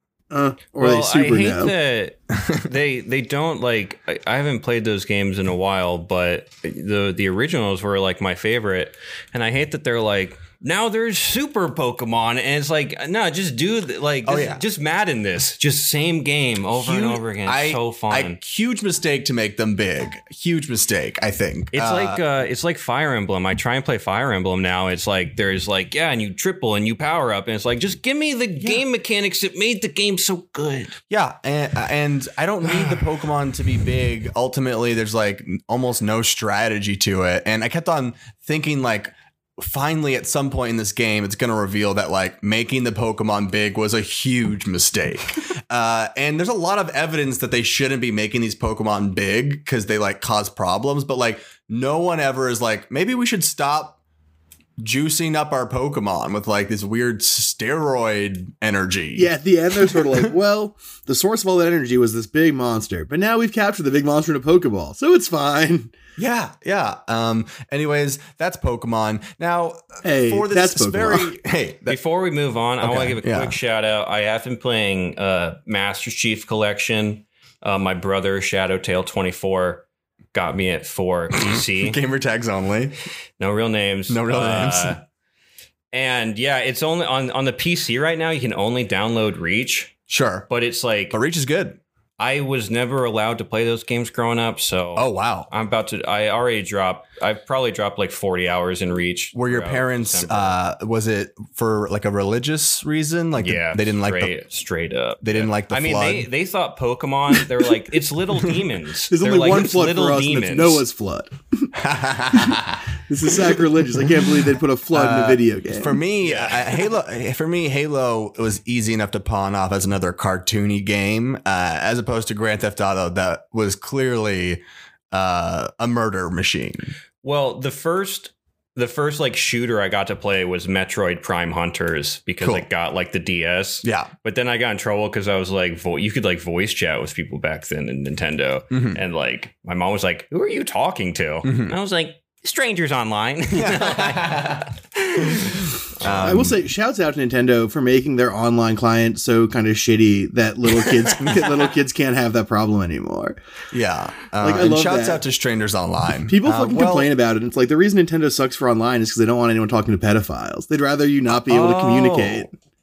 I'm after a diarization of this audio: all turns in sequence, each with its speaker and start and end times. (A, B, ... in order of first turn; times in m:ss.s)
0:00.3-0:01.7 A
0:00.8-0:18.4 B
0:14.2-0:14.6 C
0:16.7-0:22.2 C
0:21.7-0:31.0 B
0:31.1-0:54.0 C
0:32.7-0:33.0 B
0:54.8-1:00.3 C
0:59.1-1:05.9 A
1:06.2-1:12.0 C
1:10.0-1:11.3 A
1:11.9-1:22.0 B
1:12.8-1:13.6 C
1:21.3-1:22.9 C
1:23.4-1:25.0 B
1:24.1-1:25.0 C
1:25.9-1:29.9 B
1:30.1-1:30.5 C
1:30.5-1:31.2 B
1:31.1-1:31.8 C
1:32.2-1:40.6 B
1:35.0-1:35.5 C
1:39.3-1:44.3 C
1:43.4-1:50.8 B
1:45.2-1:46.3 C
1:49.1-1:51.7 A
1:51.8-1:54.4 C
1:52.3-1:56.0 A
1:54.9-2:06.9 C
1:56.2-1:56.8 B
2:07.2-2:26.3 B
2:12.4-2:12.7 C
2:13.8-2:14.1 C
2:18.7-2:19.0 C
2:21.4-2:21.8 C
2:23.5-2:24.7 C
2:25.2-2:26.6 C
2:26.1-2:33.4 A
2:31.2-2:31.5 C
2:33.7-2:37.1 C
2:34.4-2:35.2 A
2:36.3-2:42.5 A
2:41.3-2:42.4 C